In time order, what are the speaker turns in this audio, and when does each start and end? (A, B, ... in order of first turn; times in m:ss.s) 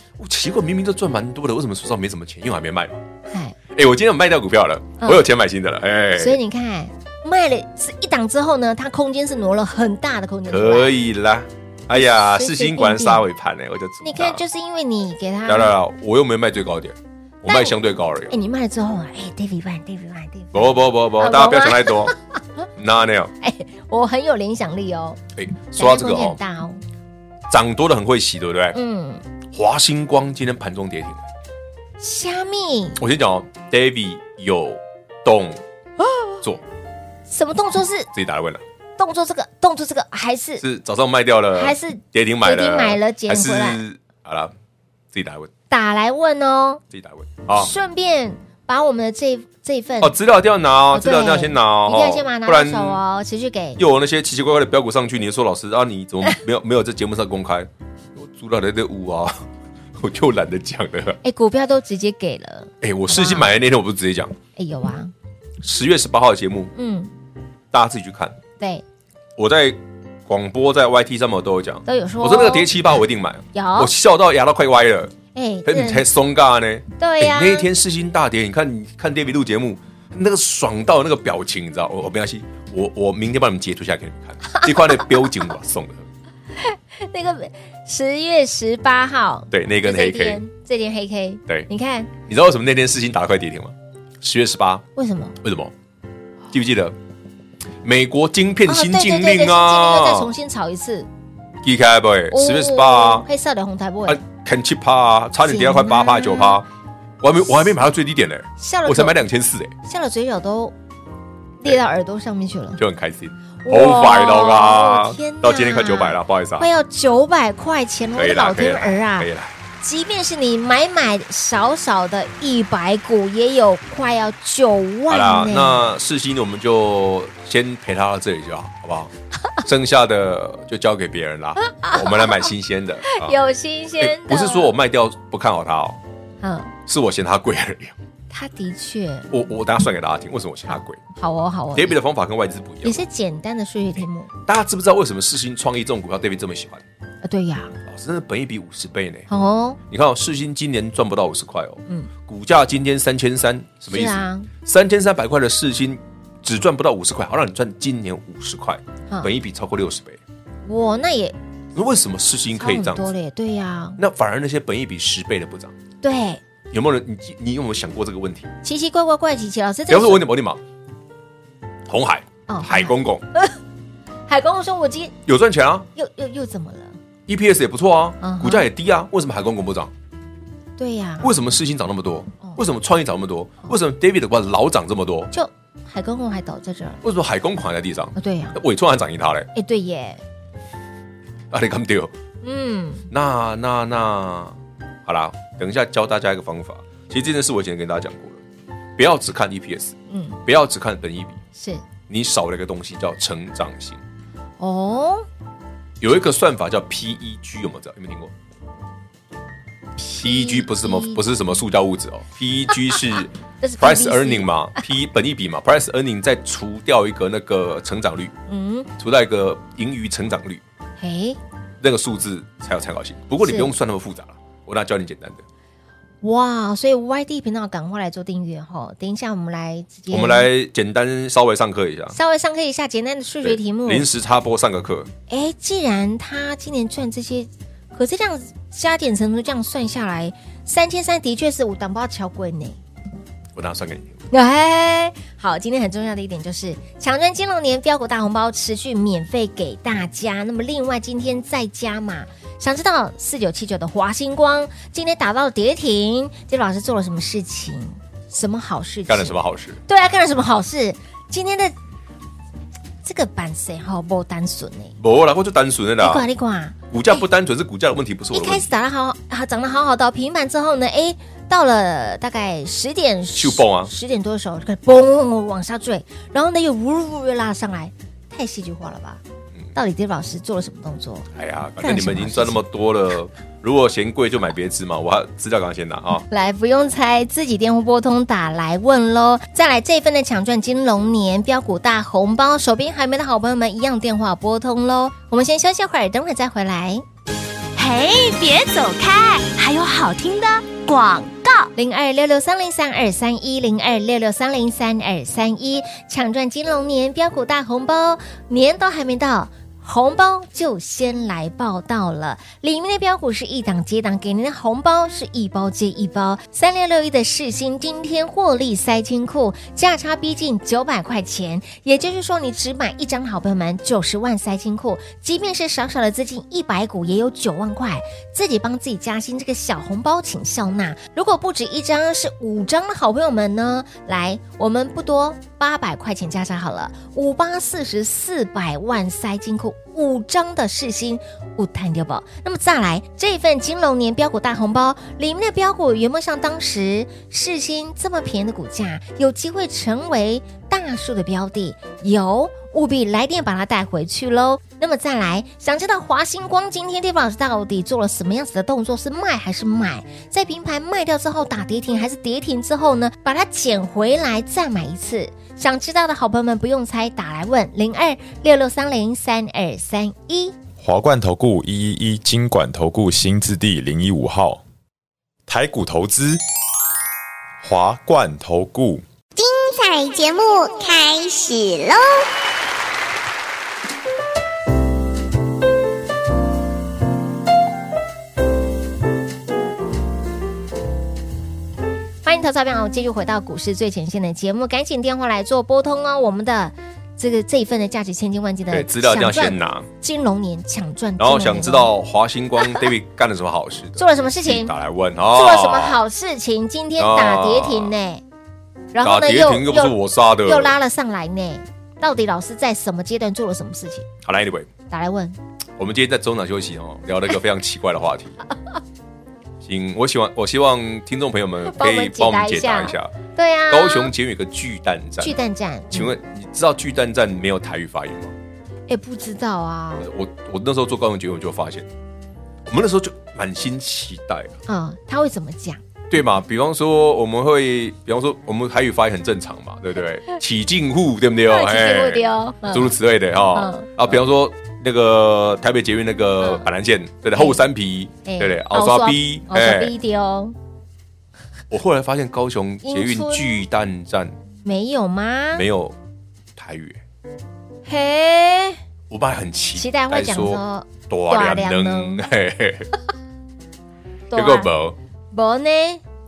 0:00.2-0:03.0 A
0:03.3-0:03.6 B
0:03.7-0:06.4 A
0:05.0-0:05.2 B
0:06.2-0:10.9 B
0:10.5-0:14.4 A
0:11.9-0:13.2 B
0:14.0-0:15.7 B
0:15.5-0:18.3 A
0:17.4-0:17.7 B
0:18.3-0:22.6 B
0:20.5-0:22.1 A
0:22.8-0:23.3 A
0:23.4-0:25.2 B
0:25.4-0:26.4 A
0:25.8-0:26.8 B
0:27.5-0:28.8 A
0:28.7-0:29.2 B
0:29.5-0:31.2 A
0:32.0-0:33.0 B
0:33.0-0:35.6 A
0:36.0-0:36.3 B
0:37.3-0:38.1 B
0:38.1-0:38.6 A
0:39.0-0:40.6 B
0:40.6-0:44.5 A
0:41.5-0:43.8 B
0:45.1-0:45.5 A
0:45.7-0:46.8 B
0:46.9-0:47.7 A
0:47.5-0:50.1 B
0:50.0-0:53.0 A
0:50.9-0:53.8 B
0:53.8-0:59.4 A
1:00.0-1:01.2 A
1:01.2-1:03.5 B
1:02.8-1:04.3 A
1:04.6-1:05.1 B
1:05.6-1:06.7 A
1:06.7-1:07.1 B
1:07.7-1:08.3 A
1:09.4-1:15.1 A
1:11.8-1:12.9 B
1:13.5-1:13.9 B
1:15.3-1:16.0 B
1:15.6-1:26.0 A
1:17.0-1:17.7 B
1:24.5-1:25.5 B
1:26.6-1:32.1 B
1:29.5-1:30.4 A
1:32.2-1:34.8 A
1:35.0-1:35.4 B
1:35.4-1:35.7 A
1:36.5-1:36.9 A
1:37.8-1:40.3 A
1:38.7-1:41.1 B
1:41.6-1:43.3 A
1:42.3-1:44.2 B
1:44.1-1:46.6 A
1:45.4-1:46.6 B
1:47.2-1:49.7 A
1:48.6-1:49.2 B
1:49.8-1:50.7 B
1:51.6-1:52.8 B
1:52.8-1:56.7 A
1:53.6-1:59.3 B
1:58.2-1:59.6 A
1:59.8-2:05.8 B
2:05.1-2:09.1 A
2:09.6-2:13.4 A
2:11.6-2:12.5 B
2:13.0-2:14.7 B
2:14.0-2:16.0 A
2:16.4-2:16.7 B
2:16.9-2:17.9 A
2:18.3-2:19.3 B
2:19.3-2:21.0 A
2:20.7-2:22.0 B
2:21.7-2:23.0 A
2:22.8-2:24.3 B
2:24.5-2:26.8 A
2:27.2-2:27.8 B
2:27.8-2:29.3 A
2:29.3-2:29.8 B
2:29.9-2:40.2 A
2:33.9-2:34.5 B
2:40.6-2:41.4 B
2:41.7-2:43.1 A
2:42.6-2:44.0 B
2:44.0-2:45.7 A
2:46.0-2:46.4 B
2:46.7-2:48.5 A
2:48.6-2:50.2 B
2:49.9-2:50.6 A
2:51.9-2:53.2 A
2:52.5-2:53.5 B
2:54.3-2:55.1 B
2:55.2-2:55.9 A
2:56.0-2:57.0 B
2:57.3-2:59.9 A
2:58.2-2:58.7 B
3:00.8-3:01.4 B
3:01.2-3:05.3 A
3:05.3-3:07.0 B
3:07.0-3:09.5 A
3:08.2-3:08.6 B
3:09.5-3:10.2 B
3:11.5-3:12.1 A
3:12.4-3:13.1 B
3:13.1-3:18.4 A
3:19.0-3:21.4 A
3:20.1-3:20.4 B
3:21.6-3:21.8 B
3:22.1-3:24.0 A
3:24.6-3:25.3 B
3:26.0-3:28.3 A
3:30.0-3:31.2 B
3:30.2-3:38.3 A
3:33.6-3:34.5 B
3:38.5-3:38.9 B
3:39.0-3:40.6 A
3:41.0-3:41.4 B
3:41.8-3:45.4 A
3:43.4-3:43.7 B
3:46.2-3:50.5 B
3:50.1-3:52.1 A
3:52.1-3:54.1 B
3:53.4-3:55.1 A
3:55.3-4:02.8 B
4:03.6-4:04.2 A
4:04.3-4:19.4 B
4:19.1-4:19.8 A
4:19.9-4:21.7 B
4:23.0-4:25.0 B
4:25.0-4:26.2 A
4:26.0-4:27.2 B
4:26.9-4:28.7 A
4:28.3-4:39.2 B
4:33.4-4:33.9 A
4:39.7-4:41.3 B
4:41.3-4:46.2 A
4:41.8-4:42.6 B
4:46.3-4:57.0 B
4:57.7-5:01.7 C
5:01.7-6:10.5 B
6:10.8-6:14.6 D
6:15.5-6:16.4 D
6:17.6-6:19.0 D
6:19.4-6:22.3 E
6:32.2-6:41.9 B
6:38.7-6:39.9 A
6:41.2-6:46.0 A
6:44.0-6:44.7 B
6:45.3-6:48.2 B
6:47.0-6:47.9 A
6:48.9-6:54.1 B
6:49.0-6:50.7 A
6:54.2-6:54.7 A
6:54.9-6:55.4 B
6:55.8-6:58.4 A
6:59.6-7:03.1 A
7:01.6-7:04.1 B
7:03.7-7:05.4 A
7:05.2-7:06.1 B
7:05.9-7:08.3 A
7:08.9-7:10.1 B
7:10.0-7:11.9 A
7:12.7-7:14.5 A
7:14.7-7:15.8 B
7:16.1-7:29.9 A
7:21.5-7:22.9 B
7:23.5-7:23.9 B
7:27.3-7:27.6 B
7:28.2-7:30.5 B
7:31.7-7:34.3 A
7:32.8-7:33.6 B
7:34.6-7:35.6 B
7:35.5-7:35.9 A
7:36.6-7:37.0 A
7:37.8-7:38.8 B
7:39.1-7:42.9 A
7:39.8-7:42.2 B
7:44.3-7:44.7 B
7:44.3-7:45.0 A
7:45.3-7:46.0 B